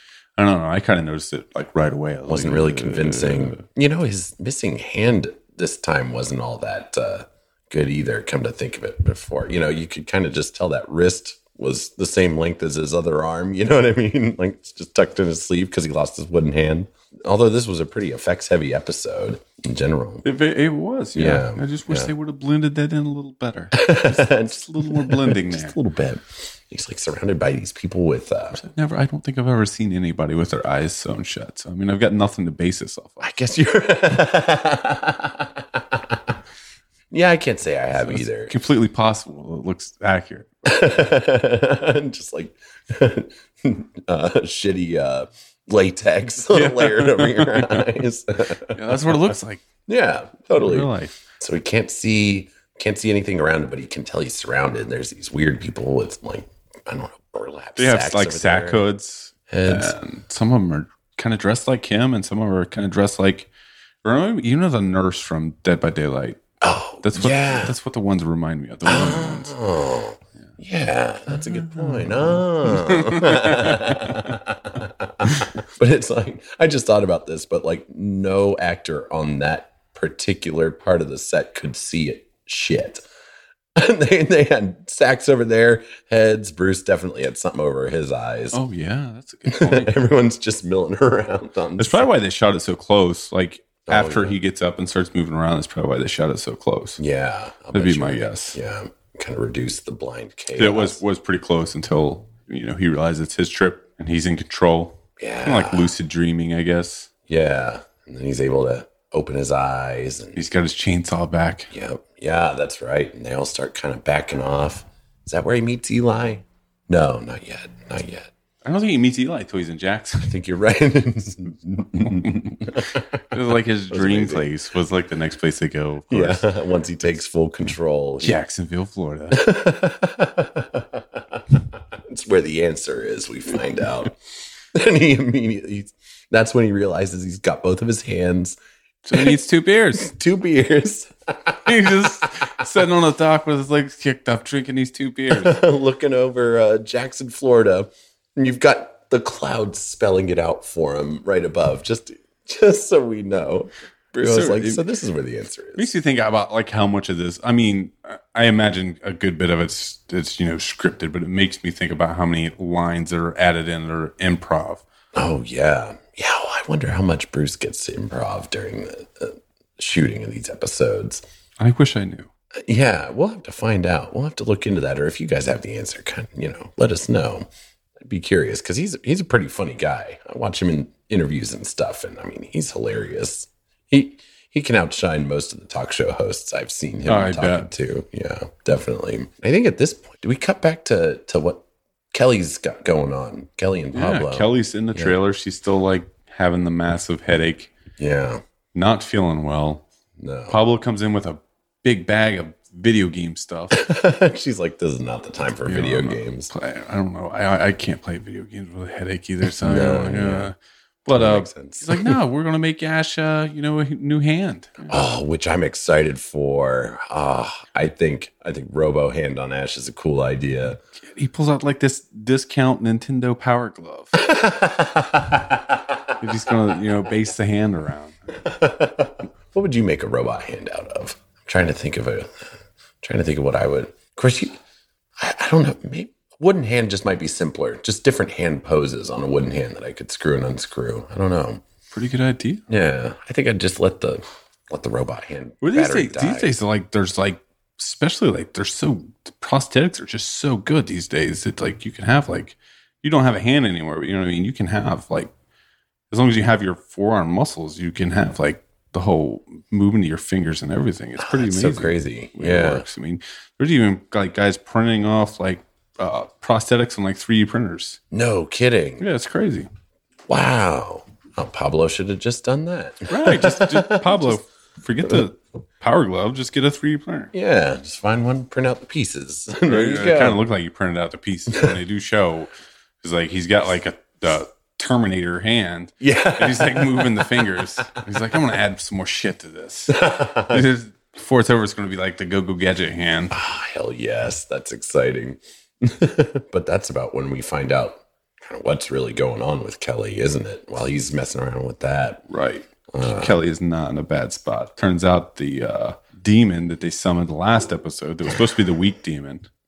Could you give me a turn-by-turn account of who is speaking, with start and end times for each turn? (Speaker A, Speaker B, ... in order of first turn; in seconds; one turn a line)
Speaker A: 0.4-3.6
Speaker B: 2.3-20.2
Speaker A: 20.2-25.8
Speaker B: 21.1-22.1
Speaker B: 23.7-28.6
Speaker A: 28.6-33.2
Speaker B: 33.2-36.2
Speaker B: 37.1-38.5
Speaker A: 38.0-40.5
Speaker B: 40.6-49.3
Speaker A: 46.5-48.0
Speaker A: 48.7-49.6
Speaker B: 49.9-58.9
Speaker A: 50.5-51.1
Speaker A: 57.8-63.5
Speaker B: 59.5-60.0
Speaker A: 64.0-66.4
Speaker B: 66.6-67.7
Speaker A: 67.0-69.5
Speaker B: 68.8-83.0
Speaker A: 71.3-74.3
Speaker B: 83.8-88.6
Speaker A: 88.5-90.0
Speaker B: 89.5-92.1
Speaker A: 91.8-97.0
Speaker B: 93.9-94.4
Speaker B: 97.0-101.0
Speaker A: 97.7-98.6
Speaker A: 100.5-107.1
Speaker B: 105.2-105.9
Speaker B: 107.3-110.4
Speaker A: 110.3-111.7
Speaker B: 111.7-118.3
Speaker A: 118.6-120.3
Speaker B: 120.2-123.4
Speaker A: 122.0-126.5
Speaker B: 123.9-124.5
Speaker B: 126.1-128.4
Speaker A: 128.2-129.4
Speaker B: 129.3-134.2
Speaker B: 134.7-138.6
Speaker A: 139.1-140.1
Speaker B: 139.1-139.4
Speaker B: 139.9-142.3
Speaker A: 141.7-145.6
Speaker B: 145.3-155.9
Speaker A: 154.2-154.8
Speaker A: 155.8-164.8
Speaker B: 165.1-171.2
Speaker A: 171.6-172.3
Speaker B: 172.6-177.5
Speaker B: 178.0-195.2
Speaker A: 187.1-187.7
Speaker A: 193.9-197.7
Speaker B: 198.0-198.4
Speaker A: 198.7-199.8
Speaker B: 200.2-200.6
Speaker A: 200.5-203.8
Speaker B: 203.7-206.5
Speaker A: 205.7-214.9
Speaker B: 209.6-210.5
Speaker B: 211.1-212.2
Speaker B: 214.9-220.8
Speaker A: 221.0-224.2
Speaker B: 224.2-226.1
Speaker A: 226.2-228.4
Speaker B: 228.4-232.4
Speaker B: 233.0-234.6
Speaker B: 235.2-241.6
Speaker A: 241.9-242.6
Speaker B: 242.7-246.5
Speaker A: 245.6-255.3
Speaker A: 256.1-268.0
Speaker B: 261.2-262.9
Speaker B: 268.1-269.0
Speaker A: 269.0-269.7
Speaker B: 270.3-274.4
Speaker A: 273.1-277.3
Speaker B: 277.3-280.4
Speaker A: 279.6-282.5
Speaker A: 283.0-293.3
Speaker B: 286.0-288.0
Speaker B: 289.9-290.6
Speaker B: 293.3-302.2
Speaker A: 302.3-309.4
Speaker B: 302.9-303.4